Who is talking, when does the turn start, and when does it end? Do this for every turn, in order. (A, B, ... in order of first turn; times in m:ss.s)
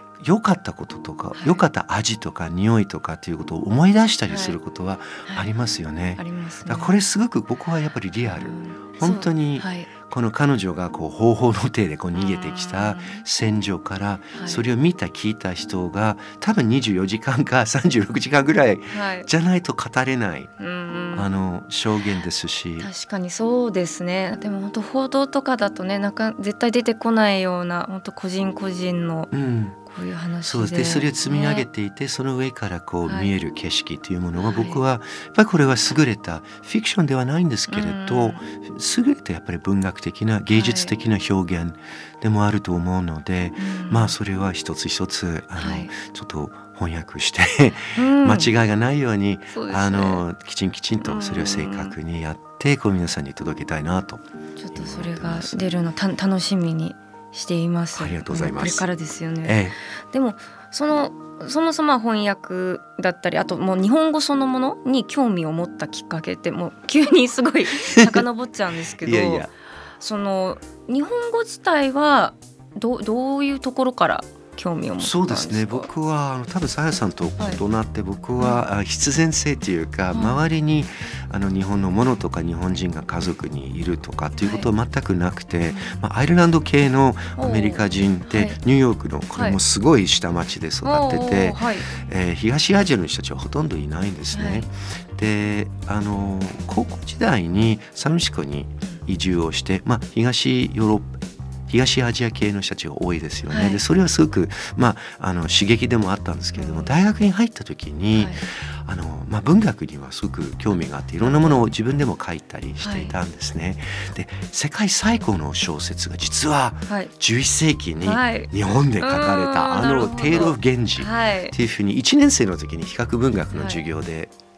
0:00.2-0:20.5 A
0:01.3-0:01.6 B
0:04.3-0:04.6 B
0:06.2-0:06.9 B
0:08.4-0:09.9 B
0:12.1-0:13.2 B
0:14.3-0:14.6 B
0:18.9-0:19.3 B
0:20.6-0:21.3 B
0:21.1-0:22.9 A
0:22.8-0:29.3 B
0:29.3-0:29.8 A
0:29.8-0:31.6 B
0:30.4-0:55.7 A
0:33.0-0:33.3 B
0:34.4-0:34.8 B
0:37.7-0:38.4 B
0:40.5-0:40.9 B
0:43.6-0:44.1 B
0:45.6-0:45.9 B
0:47.9-0:48.5 B
0:49.5-0:50.2 B
0:51.0-0:51.9 B
0:54.6-1:09.5 B
0:58.0-0:58.9 A
0:59.4-0:59.8 A
1:07.8-1:08.2 A
1:09.0-1:09.5 A
1:10.0-1:15.9 B
1:15.0-2:04.3 A
1:18.4-1:18.6 B
1:20.1-1:20.4 B
1:25.7-1:26.0 B
1:27.4-1:28.6 B
1:30.8-1:31.9 B
1:34.3-1:34.7 B
1:43.5-1:43.8 B
1:46.6-1:46.9 B
1:48.1-1:48.4 B
1:51.2-1:51.6 B
1:52.8-1:53.2 B
1:58.0-2:01.5 B
2:03.5-2:03.8 B